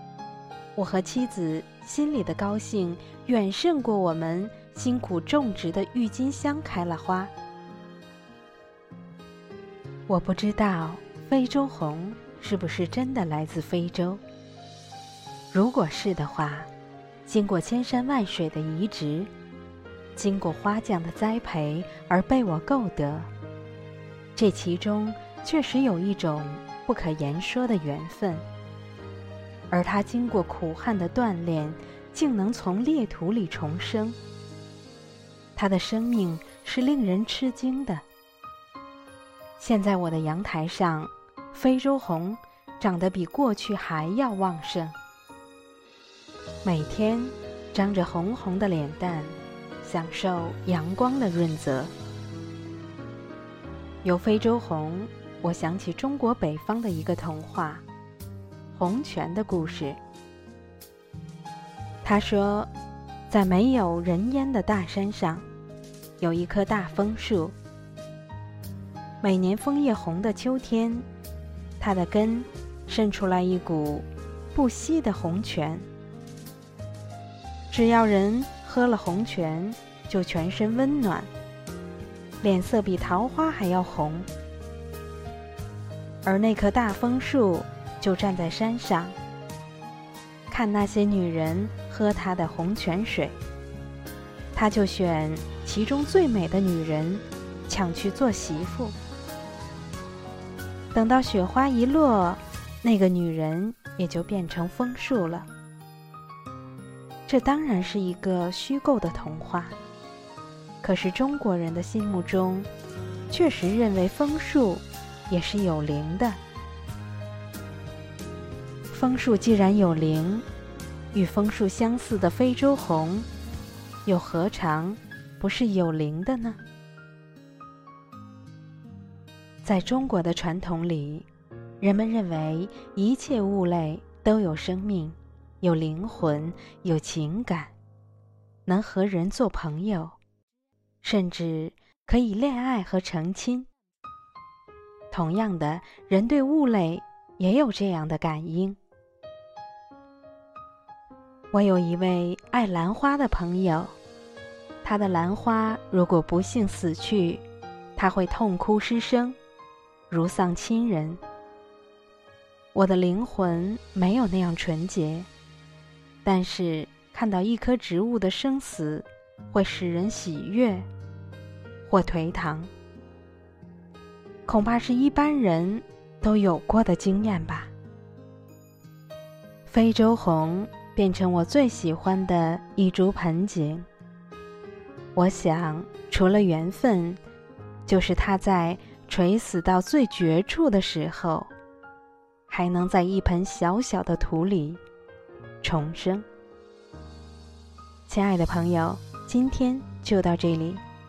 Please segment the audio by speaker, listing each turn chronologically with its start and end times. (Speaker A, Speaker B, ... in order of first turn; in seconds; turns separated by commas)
Speaker A: 0.8-7.3, Speaker A: 10.1-14.2, Speaker A: 15.5-16.7, Speaker A: 17.2-19.3, Speaker A: 20.1-23.3, Speaker A: 24.4-28.4, Speaker A: 29.7-34.2, Speaker A: 35.5-38.0, Speaker A: 39.6-45.0, Speaker A: 46.6-51.9, Speaker A: 54.0-57.8, Speaker A: 58.7-60.0, Speaker A: 62.0-62.7, Speaker A: 63.3-65.5, Speaker A: 66.2-67.5, Speaker A: 69.2-71.0, Speaker A: 71.8-75.8, Speaker A: 77.7-81.3, Speaker A: 82.4-84.3, Speaker A: 86.2-89.2, Speaker A: 90.5-93.4, Speaker A: 94.5-99.0, Speaker A: 100.9-105.5, Speaker A: 107.3-109.8, Speaker A: 110.8-112.7, Speaker A: 113.3-116.4, Speaker A: 118.9-120.4, Speaker A: 121.1-123.3, Speaker A: 124.0-126.6, Speaker A: 129.6-131.3, Speaker A: 131.8-137.7, Speaker A: 138.7-140.2, Speaker A: 141.0-143.7, Speaker A: 145.1-148.8, Speaker A: 151.5-153.9, Speaker A: 154.8-157.4, Speaker A: 157.9-159.4, Speaker A: 160.1-161.2, Speaker A: 162.7-165.3, Speaker A: 166.2-170.9, Speaker A: 171.9-172.7, Speaker A: 174.5-177.7, Speaker A: 179.7-183.9, Speaker A: 185.1-187.2, Speaker A: 187.9-191.5, Speaker A: 192.5-194.8, Speaker A: 195.6-196.2, Speaker A: 198.1-200.8